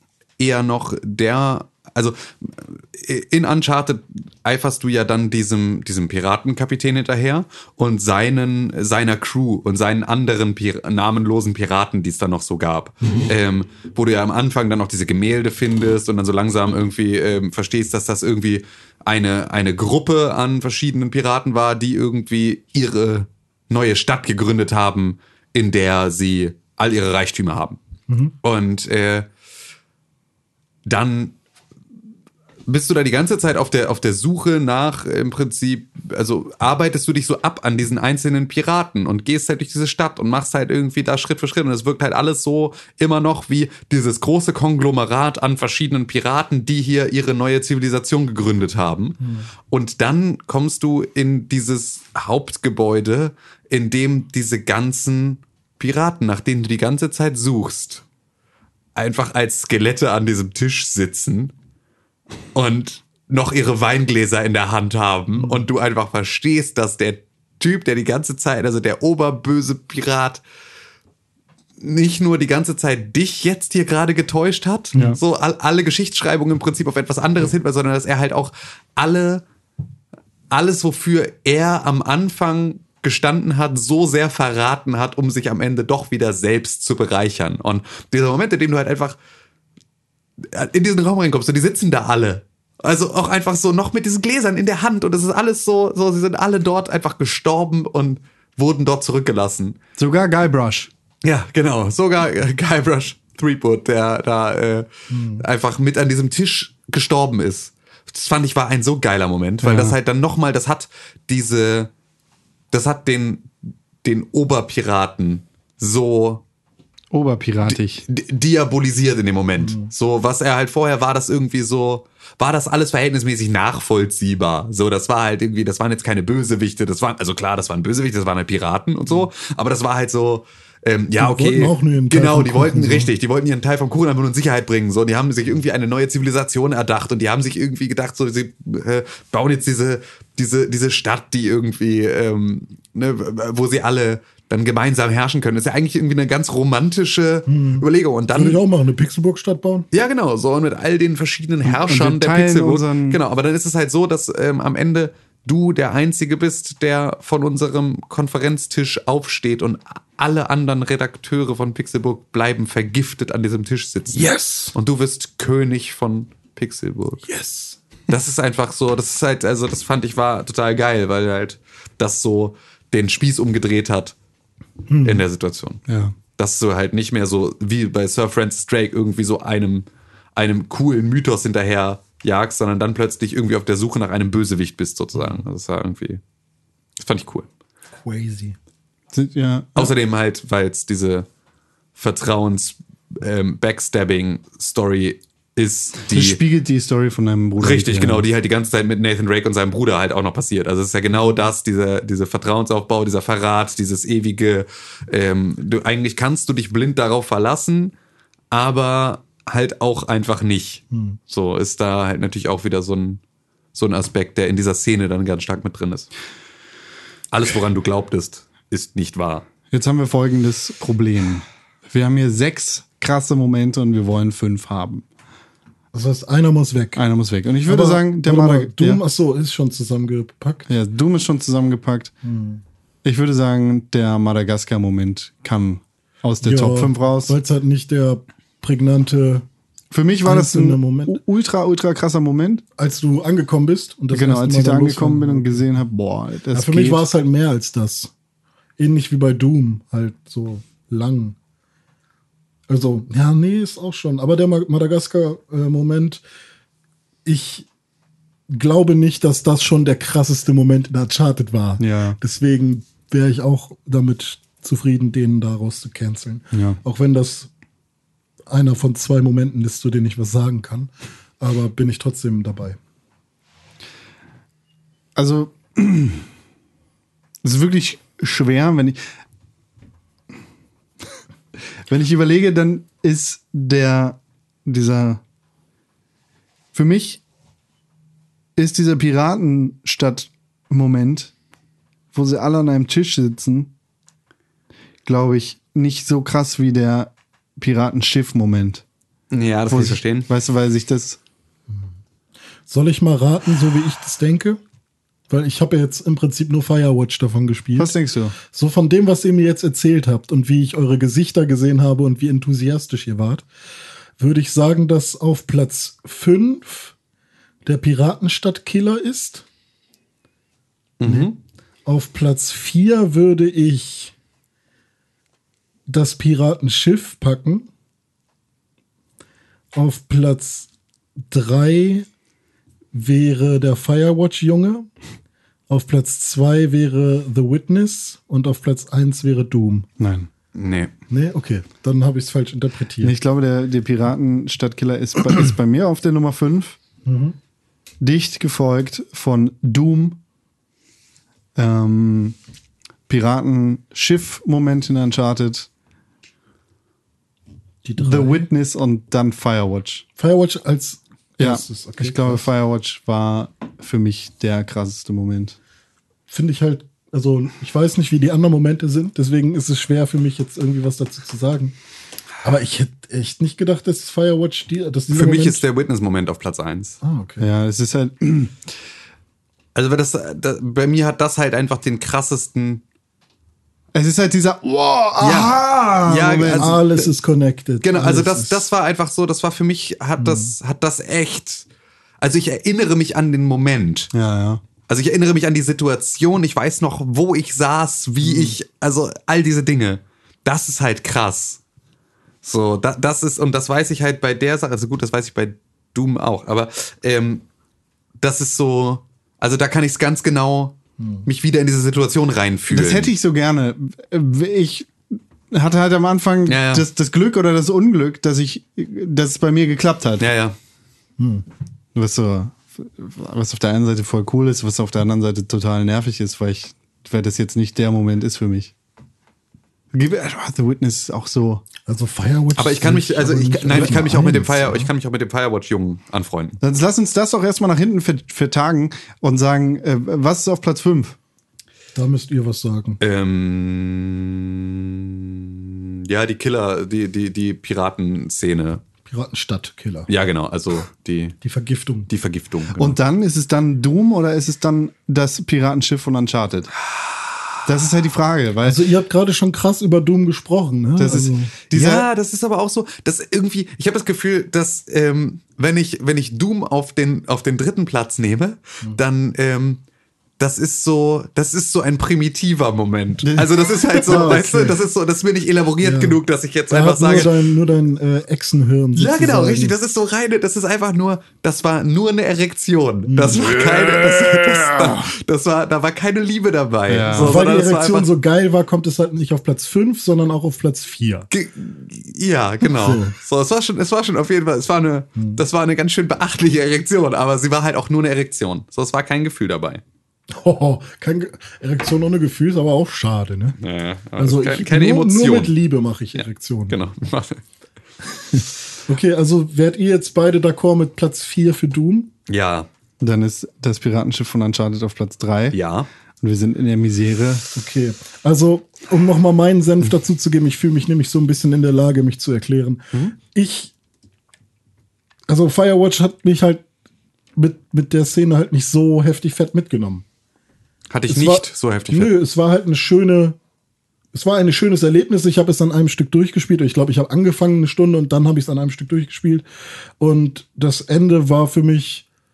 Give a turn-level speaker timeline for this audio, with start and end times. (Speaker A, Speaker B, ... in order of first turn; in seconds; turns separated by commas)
Speaker A: 0.4-27.8, Speaker B: 28.1-28.3, Speaker A: 28.4-29.3, Speaker A: 30.9-31.3, Speaker A: 32.7-49.2, Speaker B: 49.2-49.5, Speaker A: 49.7-58.0, Speaker A: 58.9-61.5, Speaker A: 62.5-70.4, Speaker B: 65.3-65.7, Speaker A: 71.8-79.4, Speaker A: 80.5-89.2, Speaker A: 90.5-99.8, Speaker C: 100.0-100.9, Speaker A: 101.2-111.9, Speaker B: 105.1-105.4, Speaker C: 109.6-110.0, Speaker A: 112.7-113.5, Speaker A: 114.0-116.4, Speaker C: 117.1-118.0, Speaker A: 117.7-148.6, Speaker B: 119.6-119.9, Speaker B: 131.2-133.1, Speaker B: 147.5-149.9, Speaker A: 149.9-167.2, Speaker C: 151.6-153.2, Speaker B: 164.1-164.7, Speaker B: 167.3-167.8, Speaker A: 168.1-174.1, Speaker B: 174.9-175.2, Speaker A: 175.0-175.8, Speaker C: 175.9-176.1, Speaker A: 176.3-186.2, Speaker A: 187.0-187.5, Speaker B: 188.0-188.6, Speaker C: 189.1-189.9, Speaker A: 189.7-191.2, Speaker A: 191.9-196.4, Speaker C: 196.1-198.3, Speaker A: 197.6-207.9, Speaker A: 208.5-213.2, Speaker B: 210.9-211.2, Speaker A: 213.7-216.1, Speaker A: 217.3-219.5, Speaker C: 219.7-225.0, Speaker B: 225.9-227.0, Speaker C: 226.9-229.0, Speaker B: 227.6-230.7, Speaker C: 230.7-232.1, Speaker B: 232.2-232.6, Speaker C: 233.0-237.3, Speaker B: 236.4-239.4, Speaker C: 239.9-242.6, Speaker B: 240.2-241.2, Speaker B: 242.8-245.6, Speaker C: 244.1-247.1, Speaker B: 246.5-248.1, Speaker B: 248.8-251.3, Speaker B: 252.7-256.2, Speaker B: 257.2-257.6, Speaker B: 258.5-267.5, Speaker C: 261.8-262.2, Speaker C: 266.5-266.8, Speaker B: 268.5-272.8, Speaker C: 275.1-276.3, Speaker C: 277.4-279.0, Speaker C: 281.9-285.2, Speaker C: 286.7-287.2, Speaker C: 288.6-291.3, Speaker C: 292.1-293.7, Speaker C: 295.0-298.8, Speaker A: 299.3-300.3, Speaker C: 299.7-301.2, Speaker B: 302.7-304.6, Speaker B: 305.3-307.9, Speaker C: 307.8-308.4, Speaker B: 308.5-313.4, Speaker B: 314.2-316.9, Speaker B: 317.6-319.4, Speaker A: 321.0-321.4, Speaker B: 321.0-321.3, Speaker B: 321.8-324.1, Speaker B: 325.9-327.7, Speaker B: 329.7-330.7, Speaker B: 331.3-332.1, Speaker B: 332.9-334.9, Speaker B: 335.7-339.9, Speaker C: 340.0-340.3, Speaker A: 340.5-340.9, Speaker B: 341.1-343.1, Speaker C: 343.0-346.8, Speaker B: 347.0-347.4, Speaker C: 348.0-350.2, Speaker C: 351.6-352.4, Speaker C: 353.1-355.7, Speaker B: 357.8-358.5, Speaker C: 358.0-360.0, Speaker B: 360.2-362.4, Speaker C: 361.4-365.6, Speaker B: 366.3-371.7, Speaker B: 372.4-375.6, Speaker A: 375.1-377.0, Speaker B: 377.0-377.5, Speaker C: 377.4-378.5, Speaker A: 379.7-382.8, Speaker C: 383.9-386.8, Speaker A: 385.2-387.1, Speaker B: 386.6-388.6, Speaker A: 387.8-391.6, Speaker B: 390.2-390.5, Speaker A: 392.2-394.1, Speaker C: 394.1-394.6, Speaker A: 394.9-401.6, Speaker A: 402.4-407.4, Speaker A: 408.2-413.1, Speaker B: 411.0-411.3, Speaker C: 412.7-420.3, Speaker A: 416.5-416.8, Speaker A: 420.2-420.6, Speaker B: 421.2-421.4, Speaker C: 421.9-428.7, Speaker C: 429.9-431.6, Speaker B: 431.9-434.9, Speaker A: 432.6-436.6, Speaker C: 436.6-441.1, Speaker B: 441.9-443.0, Speaker A: 443.0-448.8, Speaker B: 449.1-450.1, Speaker A: 450.1-451.4, Speaker B: 451.4-452.1, Speaker A: 452.1-453.0, Speaker C: 452.8-456.7, Speaker C: 457.6-458.8, Speaker B: 458.6-461.5, Speaker C: 461.0-462.1, Speaker A: 461.7-469.8, Speaker A: 470.4-477.3, Speaker C: 473.2-474.5, Speaker B: 474.0-474.8, Speaker B: 475.8-479.8, Speaker A: 478.9-488.1, Speaker B: 483.1-483.4, Speaker C: 483.4-485.1, Speaker C: 486.9-487.4, Speaker B: 487.1-491.3, Speaker A: 491.3-499.8, Speaker B: 492.6-493.1, Speaker B: 500.3-503.6, Speaker A: 503.6-505.5, Speaker B: 504.2-506.8, Speaker A: 506.1-507.4, Speaker B: 508.3-512.1, Speaker A: 512.3-512.7, Speaker C: 513.0-515.6, Speaker A: 515.5-515.9, Speaker C: 516.2-517.4, Speaker B: 517.5-523.7, Speaker B: 525.3-526.6, Speaker B: 527.4-530.0, Speaker A: 530.9-532.1, Speaker B: 531.1-533.4, Speaker B: 534.1-539.5, Speaker B: 540.0-542.0